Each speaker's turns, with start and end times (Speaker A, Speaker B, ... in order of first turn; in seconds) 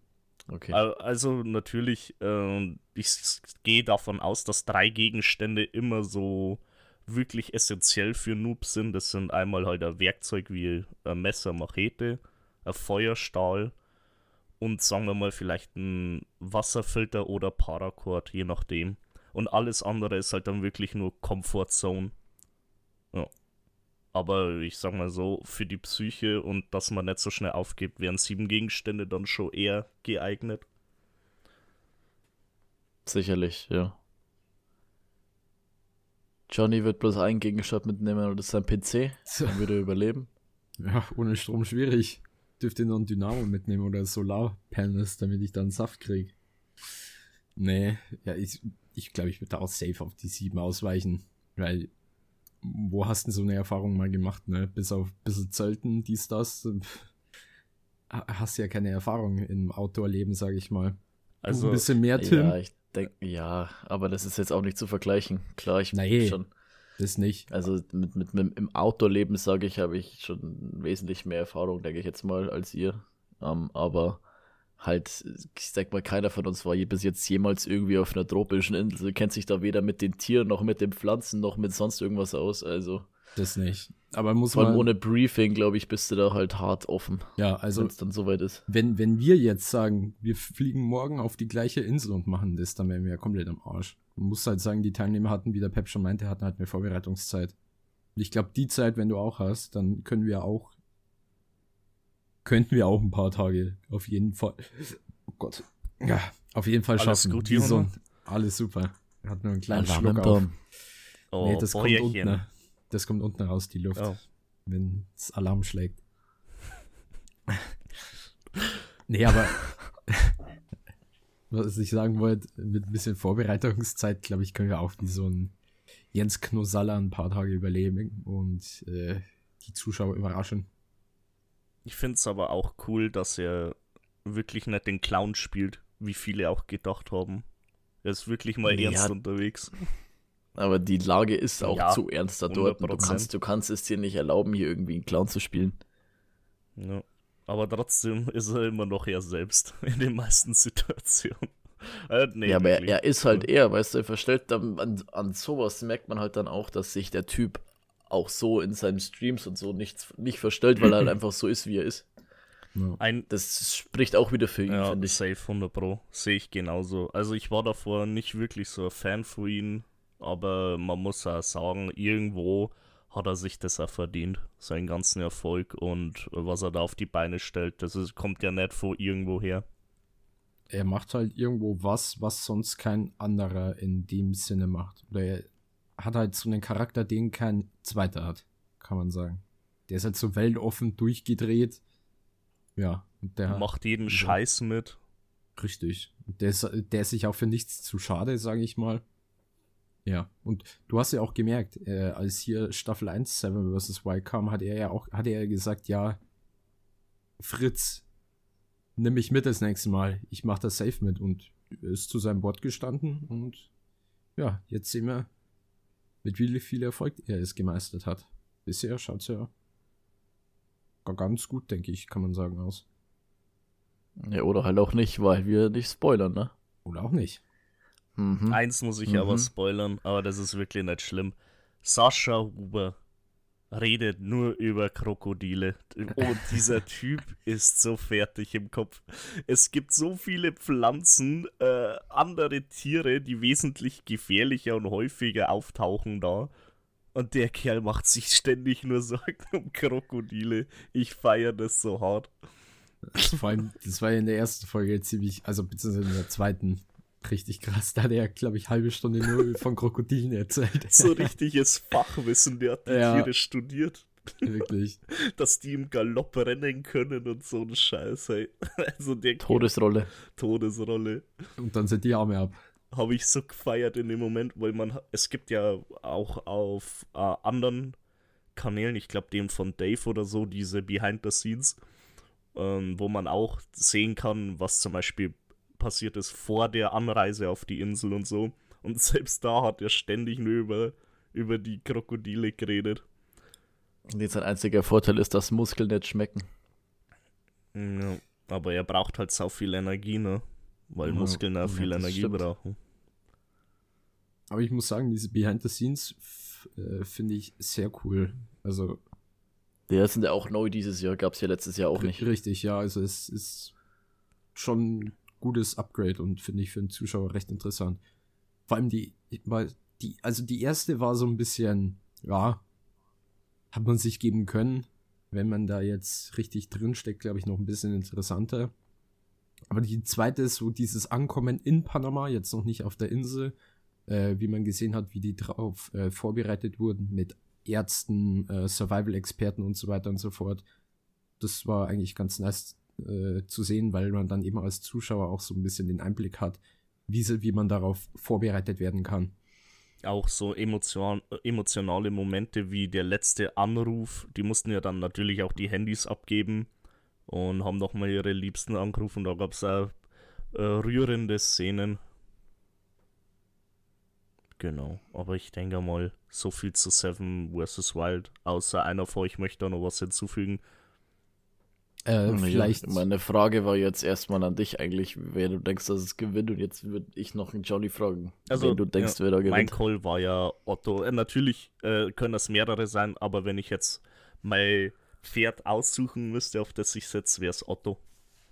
Speaker A: 0.5-0.8, 33.1-34.0, 36.5-40.3, 62.2-66.5, 67.5-74.2, 74.8-83.1, 84.5-88.6, 109.7-110.5, 138.7-139.2, 140.6-145.8, 152.5-162.1, 163.3-165.2, 224.2-226.5, 228.2-229.5, 269.4-270.1, 294.1-296.5, 301.6-302.4, 309.9-312.2, 372.3-379.8
Speaker B: 0.7-13.8, 14.6-22.1, 24.1-30.6, 61.4-61.9, 107.0-107.9, 111.3-112.4, 131.8-137.4, 138.0-139.8, 141.6-143.3, 146.8-153.5, 163.0-163.3, 164.7-179.7, 193.5-195.0, 228.5-233.0, 233.7-246.5, 247.1-252.3, 260.9-264.5, 265.1-269.7, 270.3-271.2, 272.9-278.0, 278.5-281.8, 282.5-293.0, 297.7-302.8, 350.0-356.7, 357.3-360.0, 360.5-362.0, 364.6-370.6, 378.5-388.0
Speaker C: 39.3-39.6, 40.8-46.3, 47.6-51.9, 52.6-57.1, 58.1-62.6, 65.9-66.4, 67.0-67.5, 83.4-84.9, 87.4-87.9, 88.7-97.5, 98.2-100.8, 102.5-110.4, 111.4-114.1, 114.7-116.0, 119.1-120.3, 121.5-125.5, 126.1-130.7, 180.7-191.8, 192.8-194.4, 195.6-199.0, 200.1-206.2, 207.4-208.0, 209.0-213.7, 214.4-215.3, 216.2-219.5, 221.0-222.8, 226.9-227.4, 253.1-261.3, 262.9-263.3, 264.4-265.0, 271.6-272.6, 301.0-301.4, 304.5-309.0, 312.0-313.7, 314.5-318.0, 318.7-322.6, 323.7-328.7, 329.7-333.5, 334.1-340.6, 341.4-349.3, 372.1-373.0